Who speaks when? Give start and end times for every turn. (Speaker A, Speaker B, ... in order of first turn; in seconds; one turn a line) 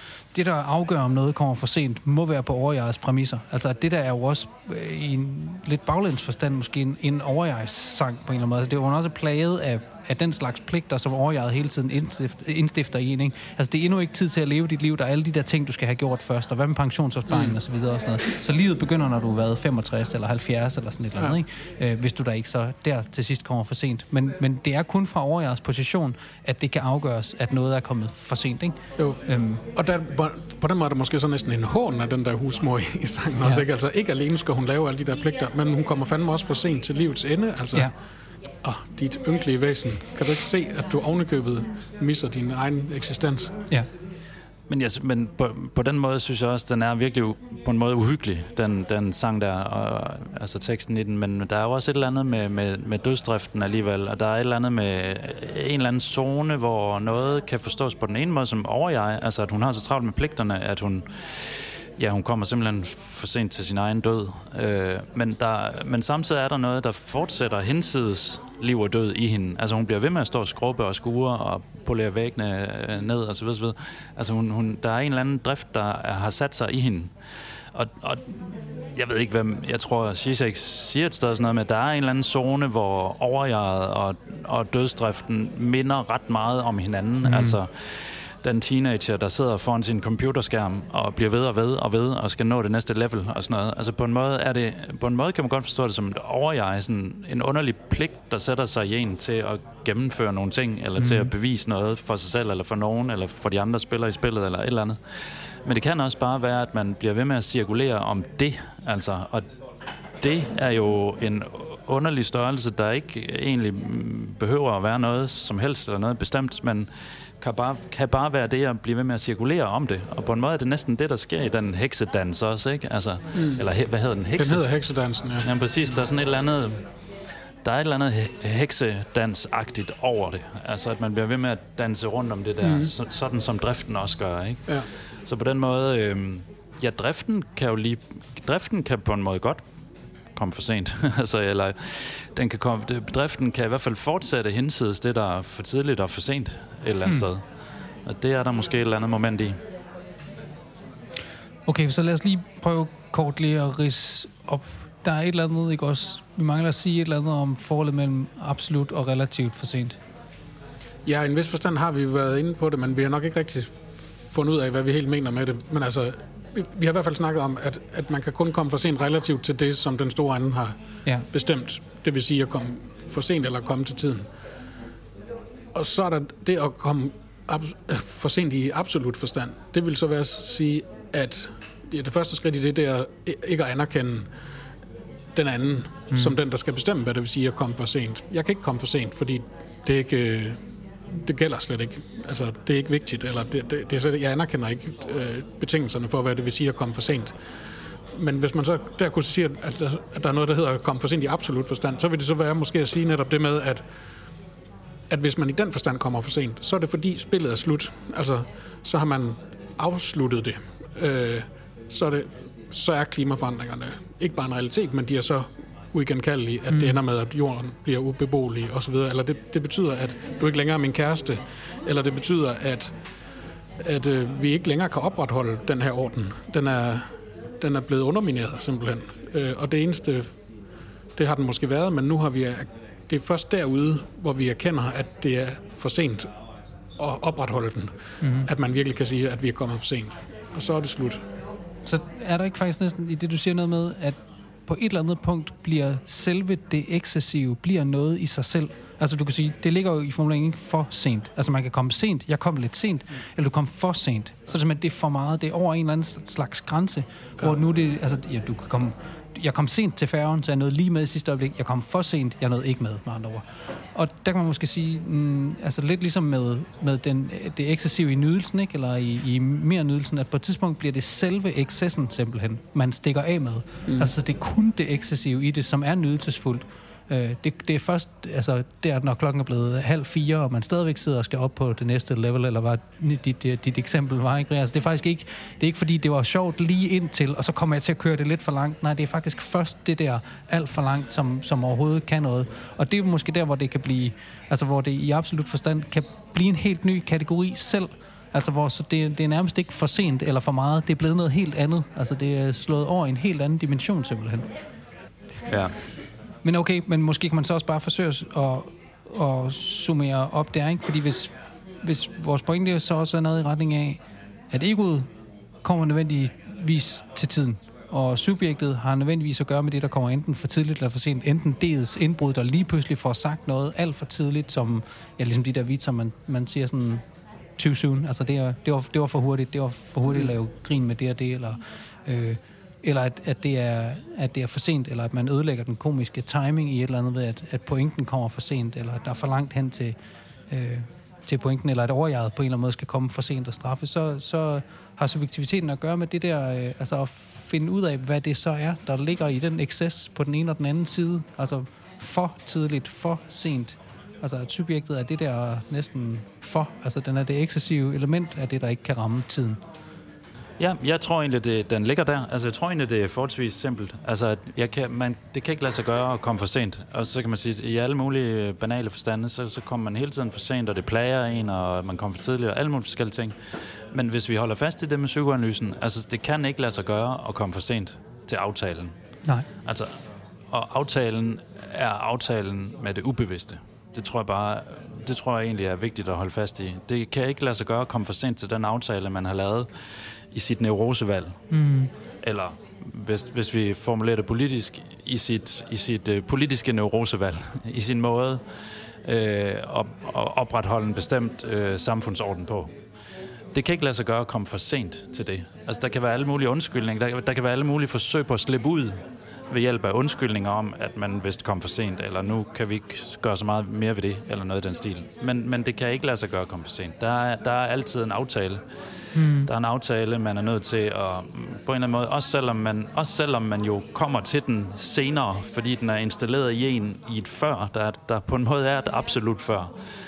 Speaker A: 0.3-29.6
Speaker B: 17.3-17.6
Speaker B: 29.0-29.2
Speaker B: 29.7-37.9
Speaker B: 38.6-43.5
Speaker C: 44.7-77.1
Speaker C: 77.7-109.5
Speaker A: 87.2-87.6
Speaker A: 101.0-101.3
Speaker C: 110.2-116.9
Speaker C: 117.4-124.6
Speaker B: 123.3-123.6
Speaker B: 124.3-125.5
Speaker C: 125.4-126.8
Speaker C: 127.6-139.6
Speaker C: 140.3-147.4
Speaker C: 148.0-149.6
Speaker A: 151.7-160.0
Speaker B: 161.1-170.7
Speaker B: 171.3-174.2
Speaker B: 175.7-184.3
Speaker B: 185.3-190.6
Speaker B: 191.2-197.3
Speaker B: 198.1-203.8
Speaker B: 205.1-222.9
Speaker A: 216.7-216.9
Speaker B: 223.8-227.1
Speaker B: 227.6-230.3
Speaker B: 231.2-236.3
Speaker B: 237.0-241.2
Speaker A: 238.2-238.5
Speaker A: 241.8-304.5
Speaker B: 273.9-274.1
Speaker C: 305.5-305.7
Speaker A: 306.4-314.0
Speaker A: 314.5-315.1
Speaker A: 315.6-327.0
Speaker A: 327.6-339.9
Speaker A: 340.5-359.6
Speaker C: 360.6-373.4
Speaker C: 373.9-378.9
Speaker C: 379.6-379.9
Speaker C: 380.5-391.4
Speaker A: 391.5-391.9
Speaker C: 392.2-398.4
Speaker C: 399.0-402.7
Speaker C: 403.5-418.6
Speaker A: 419.1-419.5
Speaker C: 419.3-429.7